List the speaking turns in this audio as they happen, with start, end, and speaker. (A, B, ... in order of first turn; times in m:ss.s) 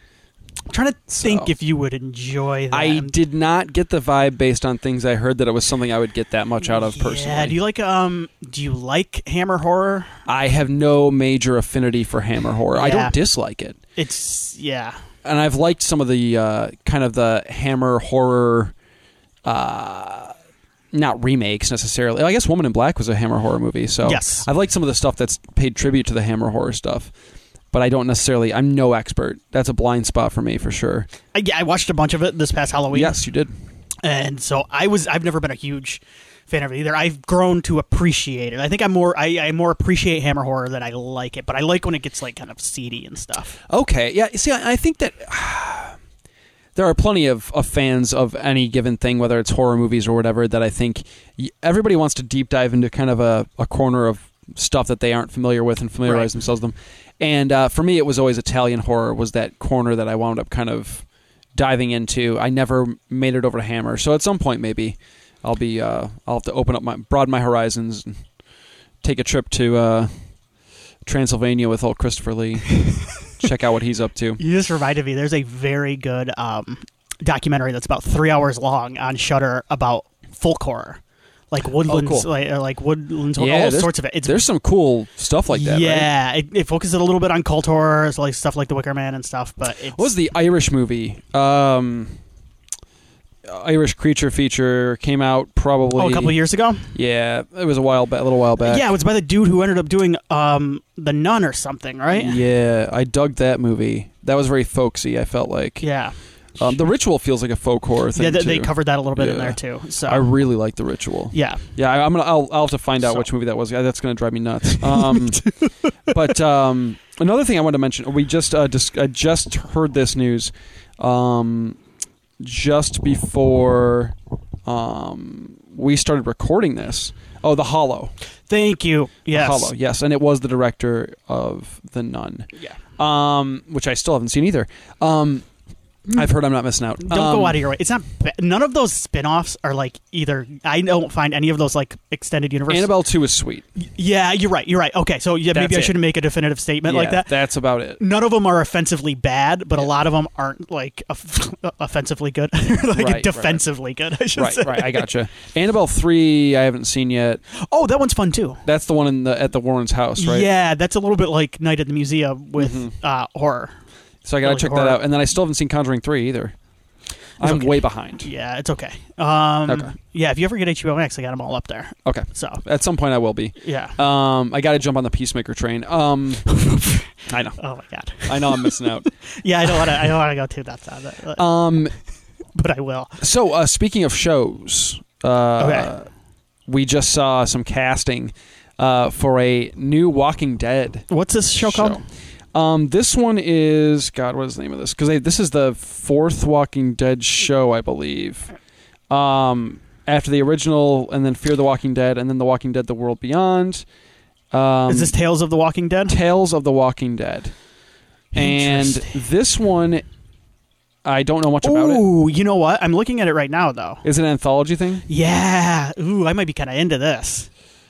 0:00.7-0:03.2 A
0:01.1-0:01.5 B
0:02.7-0:07.6 B
0:06.7-0:10.2 A
0:10.3-0:13.8 B
0:12.7-0:13.2 A
0:14.0-0:15.0 A
0:15.2-0:18.7 B
0:19.4-0:20.4 B
0:20.9-0:27.1 B
0:24.0-0:24.5 A
0:27.7-0:31.1 B
0:31.3-0:33.2 A
0:32.9-0:33.5 B
0:34.0-0:43.6 A
0:43.7-0:46.0 B
0:46.8-1:08.2 B
0:56.0-0:56.3 A
1:09.0-1:10.1 B
1:11.0-1:14.4 B
1:14.4-1:21.0 A
1:21.5-1:24.4 A
1:21.9-1:22.3 B
1:23.4-1:26.1 B
1:25.5-1:30.1 A
1:29.9-1:32.2 B
1:33.4-1:36.4 B
1:36.0-1:36.9 A
1:36.9-1:38.9 B
1:38.6-1:42.4 A
1:42.1-1:45.9 B
1:45.8-1:46.7 A
1:46.6-1:55.5 B
1:48.2-1:50.3 A
1:51.3-1:51.7 A
1:54.9-1:55.7 A
1:56.1-2:01.8 B
2:02.4-2:08.1 B
2:08.5-2:09.7 A
2:09.3-2:15.5 B
2:16.1-2:17.6 B
2:17.0-2:22.9 A
2:22.7-2:23.6 B
2:23.8-2:27.4 A
2:25.5-2:26.0 B
2:26.8-2:28.0 B
2:28.0-2:35.1 A
2:33.0-2:33.7 B
2:34.4-2:37.4 B
2:37.5-2:38.6 A
2:38.6-2:40.5 B
2:40.2-2:43.7 A
2:42.6-2:42.9 B
2:44.2-2:46.6 B
2:44.4-2:45.0 A
2:47.4-2:48.3 B
2:47.4-2:52.6 A
2:49.7-2:49.9 B
2:52.1-2:56.4 B
2:53.6-2:54.0 A
2:56.5-3:01.4 A
2:57.3-2:57.6 B
2:58.3-2:59.1 B
3:01.4-3:01.9 B
3:02.6-3:03.2 A
3:03.2-3:06.1 B
3:05.6-3:05.9 A
3:06.7-3:11.1 B
3:11.1-3:12.0 A
3:11.6-3:12.0 B
3:12.5-3:18.5 B
3:19.1-3:23.8 B
3:24.5-3:25.2 B
3:24.9-3:26.2 A
3:26.1-3:27.5 B
3:28.3-3:29.2 A
3:28.3-3:30.0 B
3:31.0-3:32.0 B
3:31.6-3:34.0 A
3:34.0-3:35.1 B
3:35.1-3:37.5 A